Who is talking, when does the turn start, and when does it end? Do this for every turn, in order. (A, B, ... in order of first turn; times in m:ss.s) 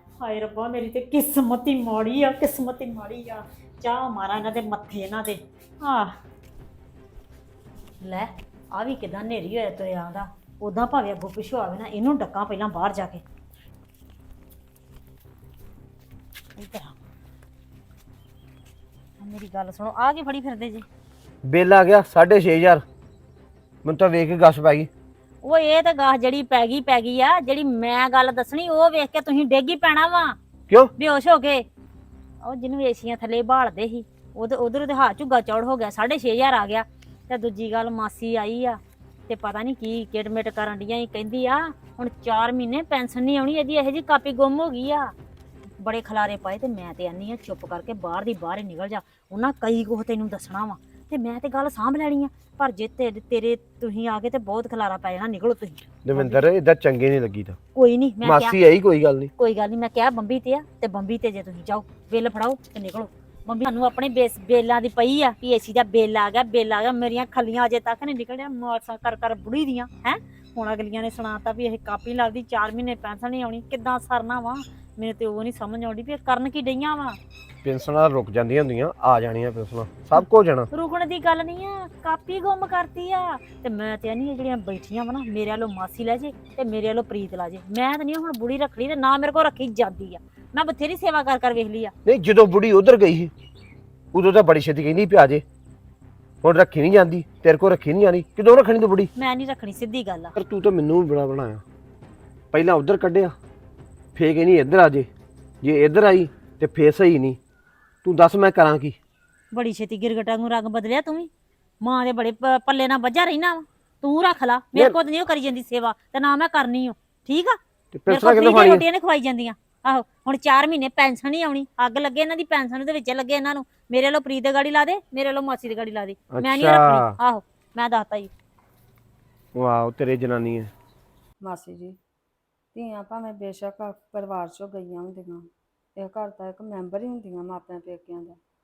0:00.2-0:06.1 A
0:08.0-0:13.2 A
0:16.6-0:16.9 A
0:19.2-0:20.8 A
0:21.4-0:22.8 B
0:23.8-0:24.9 B
0:25.4-0:30.4 A
0:31.0-0:31.6 A
0:32.4-0:45.1 A
0:45.8-0:56.4 A
0:56.0-0:57.6 B
0:57.7-0:58.6 A
0:58.2-0:59.3 B
0:59.4-1:17.2 A
1:17.6-1:20.7 B
1:20.1-1:31.9 A
1:32.0-1:33.3 B
1:34.1-1:35.4 B
1:36.4-1:39.1 B
1:39.2-1:40.3 A
1:40.3-1:41.6 B
1:42.5-1:43.3 B
1:44.1-1:45.1 B
1:45.6-1:47.4 B
1:48.0-1:49.0 B
1:49.5-1:51.3 A
1:51.8-2:08.3 A
1:57.9-1:58.8 B
2:06.3-2:07.1 B
2:09.5-2:10.7 B
2:11.4-2:12.0 C
2:12.7-2:18.4 C